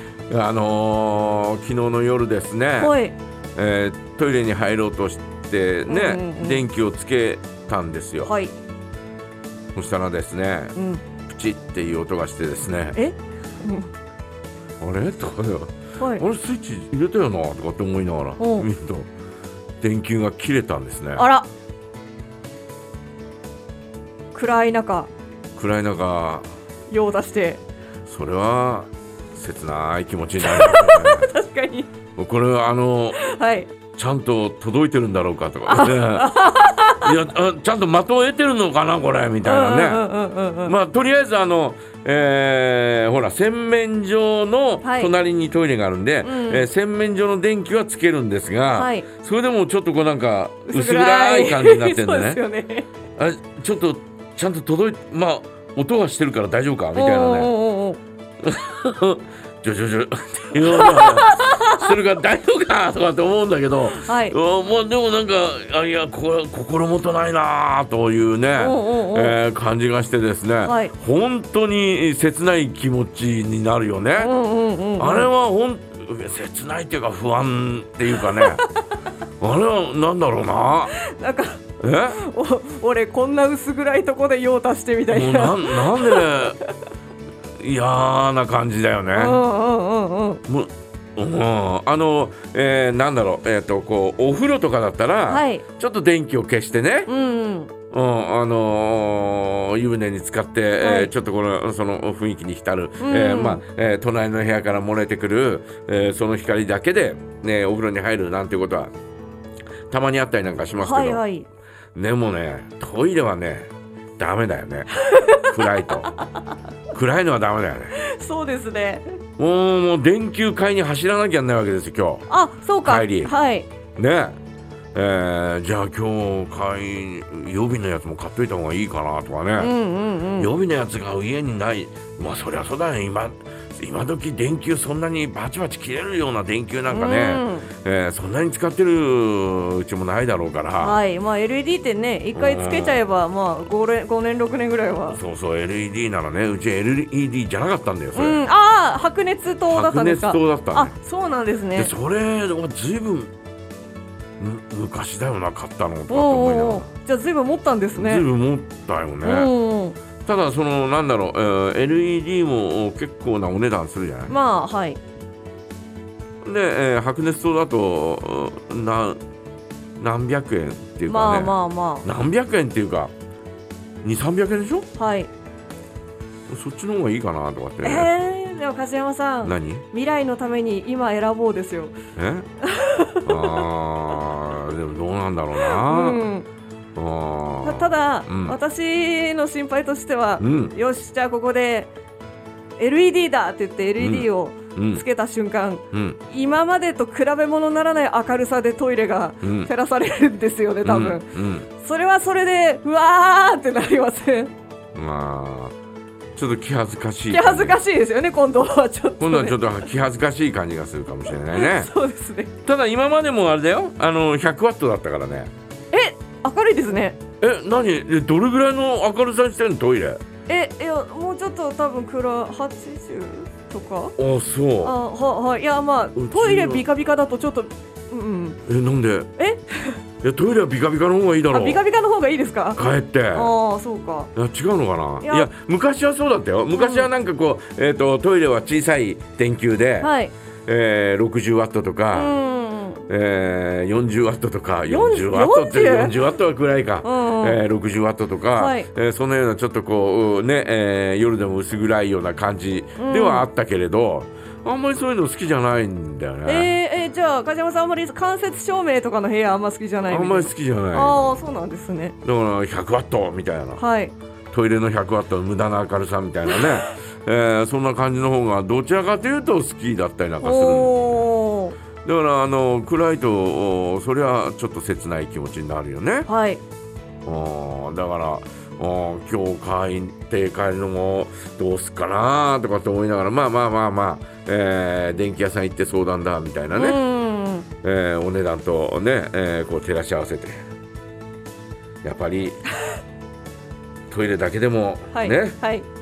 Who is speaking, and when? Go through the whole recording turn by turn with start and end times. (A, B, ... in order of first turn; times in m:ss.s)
0:00.3-0:03.0 A
0:02.8-0:03.1 B
0:03.6-0:08.3 A
0:05.9-0:06.6 B
0:08.2-0:08.5 B
0:09.7-0:10.7 A
0:10.7-0:11.0 B
0:11.3-0:13.0 A
0:12.9-0:13.9 B
0:14.8-0:19.1 A
0:16.0-0:16.2 B
0:18.4-0:18.7 B
0:19.8-0:21.2 A
0:21.2-0:21.5 B
0:24.3-0:25.1 B
0:25.6-0:26.5 A
0:26.9-0:27.6 B
0:28.0-0:31.3 A
0:30.4-0:31.9 B
0:32.2-0:33.2 A
0:33.2-0:33.7 B
0:33.9-0:36.4 A
0:35.6-0:37.1 B
0:36.9-0:40.0 A
0:39.4-0:40.7 B
0:40.6-0:52.4 A
0:44.8-0:45.1 B
0:46.2-0:46.7 B
0:48.7-0:49.1 B
0:50.7-0:52.9 B
0:53.2-0:57.5 A
0:56.9-0:58.0 B
0:58.4-1:14.3 A
1:00.6-1:01.8 B
1:03.9-1:04.4 B
1:08.6-1:09.4 B
1:10.6-1:10.9 B
1:14.2-1:15.3 B
1:15.0-1:18.6 A
1:18.2-1:18.7 B
1:19.4-1:20.9 A
1:20.9-1:26.7 B
1:21.8-1:22.2 A
1:25.1-1:26.6 A
1:27.6-1:29.4 A
1:29.1-1:30.4 B
1:30.5-1:37.1 A
1:35.3-1:35.6 B
1:37.1-1:37.7 B
1:37.9-1:48.9 A
1:40.8-1:41.1 B
1:43.0-1:43.6 B
1:49.9-1:51.2 A
1:50.8-1:51.5 B
1:51.9-1:56.1 A
1:55.0-1:55.9 B
1:56.9-1:58.0 A
1:58.0-1:59.0 B
1:59.4-2:02.3 A
2:02.3-2:03.7 B
2:02.8-2:03.3 A
2:04.0-2:04.4 A
2:04.9-2:09.7 A
2:09.6-2:10.5 B
2:10.4-2:21.0 A
2:16.9-2:17.7 B
2:20.8-2:25.2 B
2:22.3-2:23.0 A
2:25.1-2:28.4 A
2:28.1-2:31.9 B
2:29.7-2:30.9 A
2:31.7-2:33.3 A
2:34.4-2:36.9 A
2:36.1-2:38.2 B
2:37.9-2:39.5 A
2:39.2-2:40.0 B
2:40.2-2:44.3 A
2:44.3-2:45.0 B
2:46.4-2:49.2 A
2:50.0-2:53.1 A
2:51.1-2:52.0 B
2:54.0-2:54.9 A
2:55.0-2:55.3 B
2:56.5-2:58.1 A
2:57.8-3:02.0 B
2:59.4-2:59.8 A
3:02.2-3:02.5 A
3:02.6-3:03.7 B
3:03.2-3:06.2 A
3:05.6-3:06.5 B
3:07.0-3:08.6 A
3:07.6-3:11.9 B
3:10.4-3:10.7 A
3:12.8-3:24.5 B
3:14.0-3:15.0 A
3:15.9-3:16.2 A
3:19.4-3:19.7 A
3:20.8-3:21.7 A
3:24.9-3:25.7 A
3:26.4-3:27.8 A
3:27.3-3:29.6 B
3:29.2-3:31.9 A
3:31.5-3:32.5 B
3:32.6-3:35.5 A
3:35.9-3:37.2 B
3:37.4-3:40.2 A
3:40.5-3:44.2 B
3:44.2-3:44.9 A
3:44.8-3:48.6 B
3:46.1-3:46.8 A
3:48.6-3:49.3 A
3:49.4-3:50.0 B
3:50.2-3:51.8 A
3:51.5-3:52.8 B
3:52.8-3:53.5 A
3:53.3-3:54.3 B
3:54.3-4:00.1 A
3:55.2-3:55.5 B
3:56.7-3:57.1 B
4:00.0-4:00.3 B
4:00.6-4:02.4 A
4:02.1-4:03.1 B
4:03.1-4:16.7 A
4:04.9-4:06.1 B
4:07.0-4:07.6 B
4:08.6-4:08.9 B
4:13.0-4:13.5 B
4:16.4-4:22.1 B
4:20.1-4:21.2 A
4:22.2-4:23.8 A
4:23.8-4:24.1 B
4:24.5-4:31.2 A
4:30.4-4:31.8 B
4:32.0-4:36.3 A
4:36.3-4:36.6 B
4:37.2-4:47.0 A
4:46.7-4:47.7 B
4:47.8-4:50.6 A
4:52.0-4:52.6 A
4:54.1-4:55.6 A
4:55.1-4:55.8 B